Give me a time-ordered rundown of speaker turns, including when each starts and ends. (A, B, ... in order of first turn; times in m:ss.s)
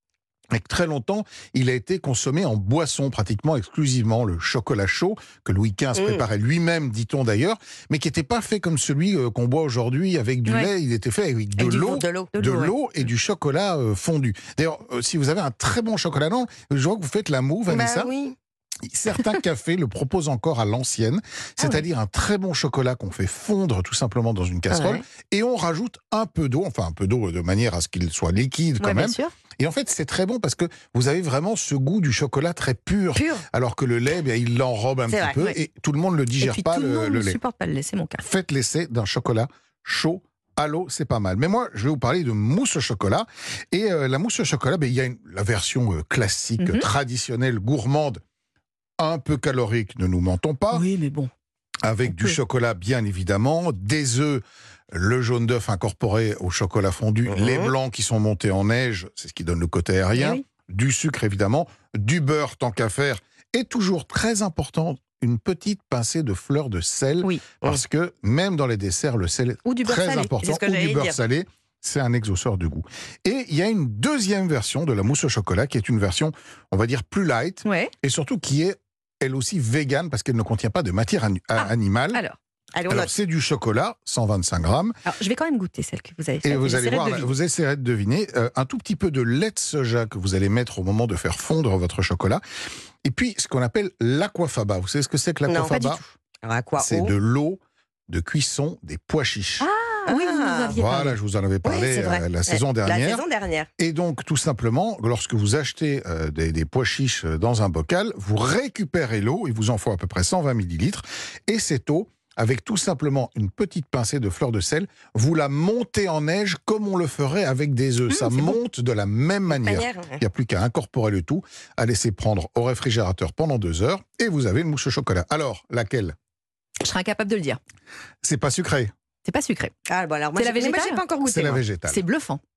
0:00.5-0:18.1 A
0:12.0-0:12.8 B
0:17.7-0:18.4 C
0:18.9-0:37.4 A
0:24.7-0:25.0 C
0:28.8-0:29.3 B
0:33.2-0:33.4 C
0:35.1-0:35.4 C
0:36.4-0:38.2 B
0:38.2-0:48.2 A
0:46.6-0:46.9 B
0:49.0-0:50.8 A
0:50.7-0:51.3 B
0:51.8-1:22.2 A
0:52.1-0:52.4 B
0:57.3-0:57.7 C
1:00.2-1:00.4 B
1:09.7-1:10.3 B
1:10.4-1:11.2 C
1:17.6-1:17.9 B
1:21.6-1:22.4 B
1:22.7-1:23.1 C
1:22.9-1:25.0 A
1:25.0-1:27.4 B
1:26.4-1:32.4 A
1:33.0-1:36.0 A
1:35.5-1:37.1 C
1:36.8-1:39.7 A
1:39.6-1:41.2 B
1:40.1-1:40.7 C
1:40.7-1:43.2 A
1:41.6-1:43.7 C
1:43.8-2:06.2 A
1:58.1-1:58.6 B
1:59.5-2:00.2 C
2:06.8-2:07.6 B
2:08.2-2:08.9 A
2:09.2-2:09.7 B
2:09.9-2:11.6 C
2:10.4-2:11.1 B
2:11.2-2:12.0 A
2:11.9-2:12.4 B